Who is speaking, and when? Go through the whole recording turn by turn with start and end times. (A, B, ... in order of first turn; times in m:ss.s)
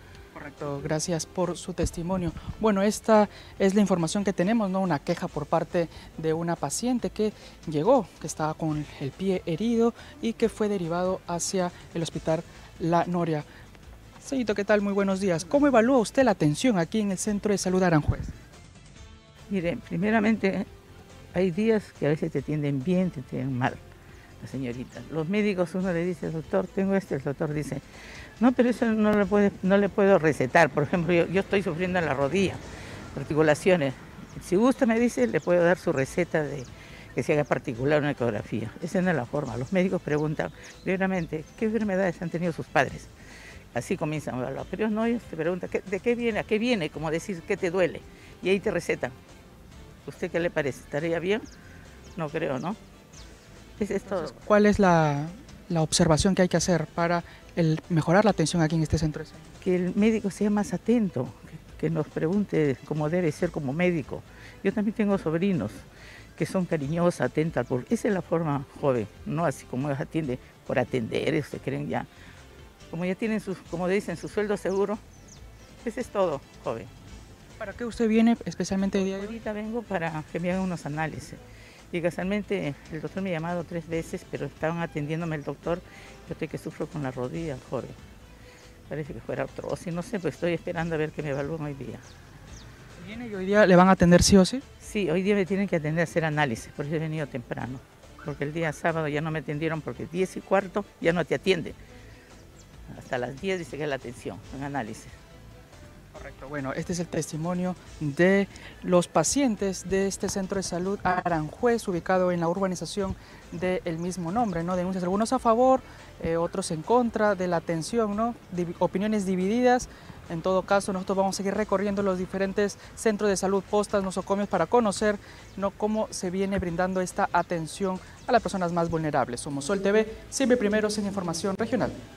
0:00.3-0:13.4 A
0:14.2-0:18.3 A
0:19.5-0:20.6 B
0:21.3-0:23.8 B
0:24.4-0:27.8 B
0:28.4-0:32.6 B
0:33.1-0:43.1 B
0:43.7-0:49.1 B
0:50.0-0:51.4 B
0:52.2-0:52.8 B
0:53.8-0:54.4 B
0:54.1-0:59.4 A
0:59.6-1:05.8 B
1:06.4-1:12.1 B
1:12.9-1:15.0 B
1:15.8-1:16.9 B
1:17.6-1:19.4 A
1:18.9-1:21.4 B
1:21.9-1:28.0 B
1:28.9-1:32.0 B
1:33.0-1:34.6 A
1:34.8-1:41.8 B
1:42.9-1:45.1 B
1:46.1-2:11.9 A